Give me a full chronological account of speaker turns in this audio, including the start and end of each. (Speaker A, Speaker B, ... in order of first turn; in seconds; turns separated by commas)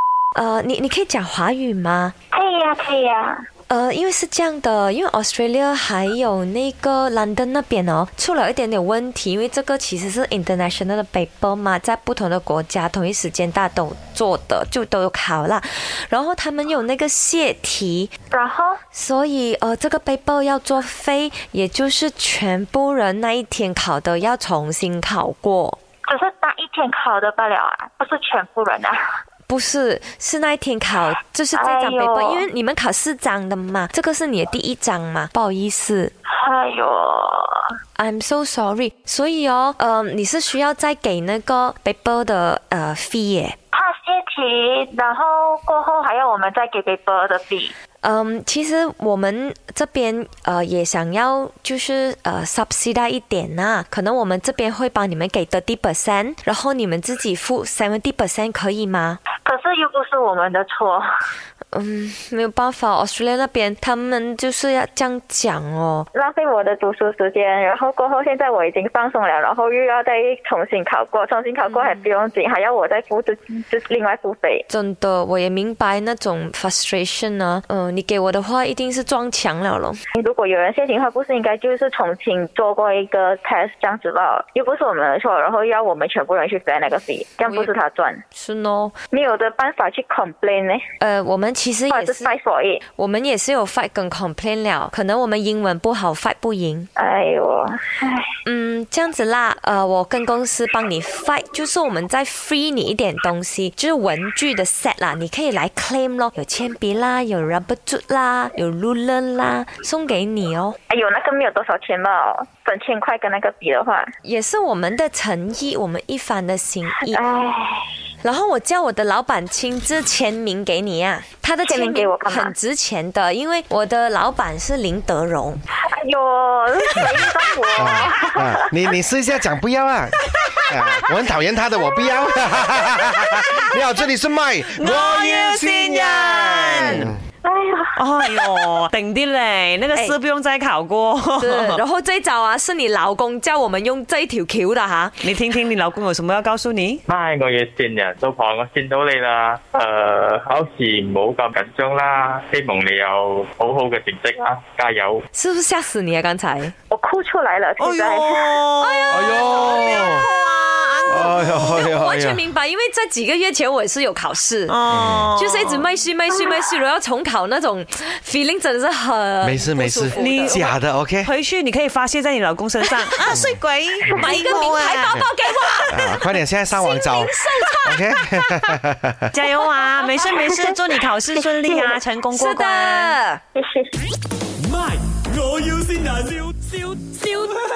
Speaker A: 0.3-2.1, Speaker B: 2.3-3.4, Speaker A: 3.7-18.1, Speaker B: 18.3-18.8, Speaker A: 18.9-25.8, Speaker B: 26.1-29.1, Speaker A: 29.5-36.1, Speaker B: 31.5-32.5, Speaker B: 36.3-37.7, Speaker A: 38.0-43.6, Speaker B: 43.7-47.7, Speaker A: 48.0-59.2, Speaker B: 59.4-61.3, Speaker A: 61.7-66.1, Speaker B: 66.1-74.6, Speaker A: 71.6-72.1, Speaker A: 74.7-80.0, Speaker B: 80.1-88.2, Speaker A: 87.4-87.7, Speaker A: 88.3-89.0, Speaker B: 89.1-90.8, Speaker A: 91.0-92.3, Speaker B: 91.9-92.8, Speaker A: 92.8-96.9, Speaker B: 97.0-98.3, Speaker A: 98.5-110.8, Speaker B: 110.9-114.1, Speaker A: 114.2-117.2, Speaker B: 117.0-117.9, Speaker A: 118.2-125.6, Speaker B: 121.6-122.5, Speaker B: 125.8-128.7, Speaker C: 127.8-137.2, Speaker D: 134.7-137.1, Speaker A: 136.5-137.1, Speaker B: 137.4-138.0, Speaker D: 138.0-141.8, Speaker A: 141.3-145.4, Speaker D: 145.2-147.0, Speaker E: 147.1-155.2, Speaker A: 155.3-156.7, Speaker B: 156.9-158.6, Speaker D: 157.8-161.8, Speaker A: 158.8-164.8, Speaker C: 159.1-160.3, Speaker C: 161.1-162.4, Speaker D: 164.7-165.8, Speaker C: 164.9-165.3, Speaker A: 165.3-170.7, Speaker C: 169.4-171.3, Speaker D: 170.1-175.2, Speaker C: 173.3-173.6, Speaker A: 174.1-178.2, Speaker C: 175.1-175.3, Speaker C: 175.9-179.3, Speaker D: 179.3-183.2, Speaker B: 181.7-182.0, Speaker A: 182.3-183.4, Speaker B: 183.5-183.9, Speaker F: 184.6-187.5